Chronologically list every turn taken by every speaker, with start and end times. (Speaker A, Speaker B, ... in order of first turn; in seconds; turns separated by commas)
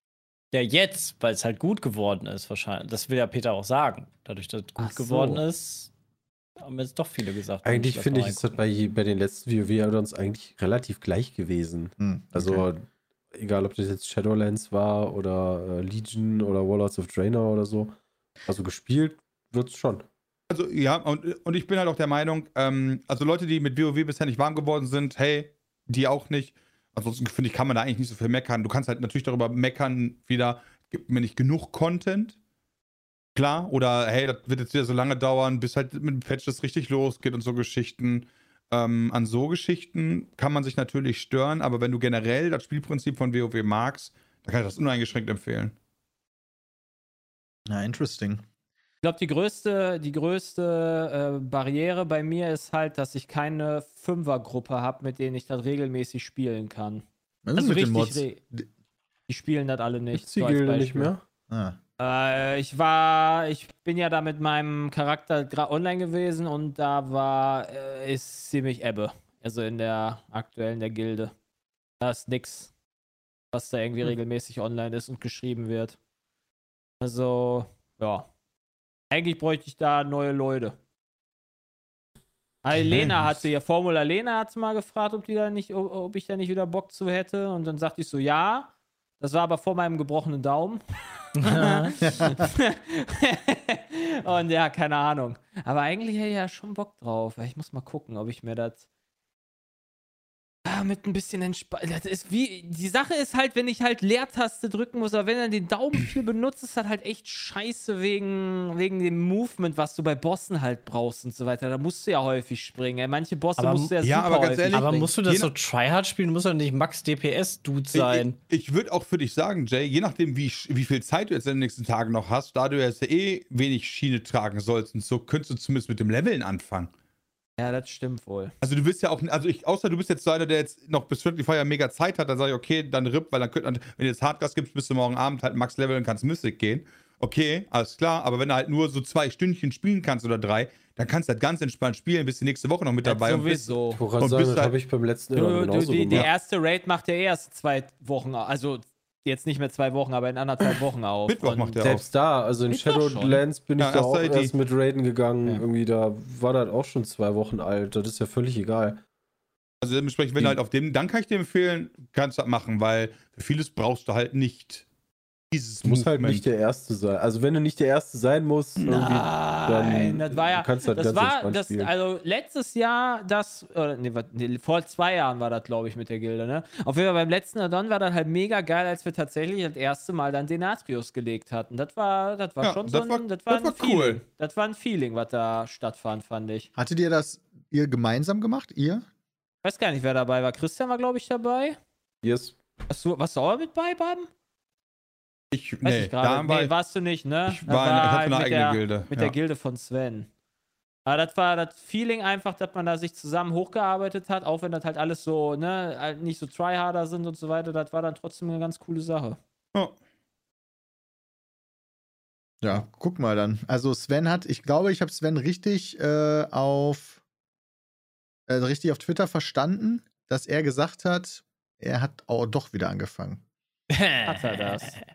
Speaker A: 0.5-5.9, Speaker B: 4.8-5.4, Speaker A: 6.6-8.6, Speaker C: 7.6-20.0, Speaker D: 12.0-12.7, Speaker E: 20.5-32.4, Speaker E: 33.3-45.7, Speaker D: 47.7-48.4, Speaker B: 49.0-57.0, Speaker D: 57.4-58.7, Speaker B: 57.5-58.4, Speaker B: 59.3-61.1, Speaker C: 60.1-61.2, Speaker D: 61.5-61.8, Speaker B: 62.0-71.3, Speaker B: 72.0-72.7, Speaker B: 73.5-76.0, Speaker B: 77.0-78.3, Speaker B: 79.1-80.8, Speaker B: 82.6-90.8, Speaker E: 82.8-83.4, Speaker A: 91.4-91.9, Speaker B: 91.4-98.8, Speaker B: 100.6-115.1, Speaker A: 113.6-113.9, Speaker E: 114.0-115.5, Speaker A: 114.7-118.4, Speaker E: 117.9-126.9, Speaker B: 127.6-128.5, Speaker E: 128.6-144.7, Speaker B: 143.0-144.0, Speaker C: 144.0-146.3, Speaker B: 145.3-151.8, Speaker E: 151.3-152.0, Speaker C: 151.8-159.0, Speaker B: 152.7-153.4, Speaker E: 153.8-154.5, Speaker E: 159.8-164.8, Speaker E: 165.5-166.4, Speaker C: 165.8-171.9, Speaker E: 168.8-169.1, Speaker B: 168.9-186.7, Speaker E: 182.6-184.2, Speaker D: 186.8-189.1, Speaker B: 189.6-191.8, Speaker C: 192.2-192.5, Speaker B: 192.9-194.3, Speaker E: 195.5-196.7, Speaker B: 195.8-200.3, Speaker E: 197.4-199.3, Speaker B: 201.1-209.4, Speaker D: 212.6-217.2, Speaker D: 218.5-223.4, Speaker A: 223.9-225.0, Speaker B: 224.2-225.0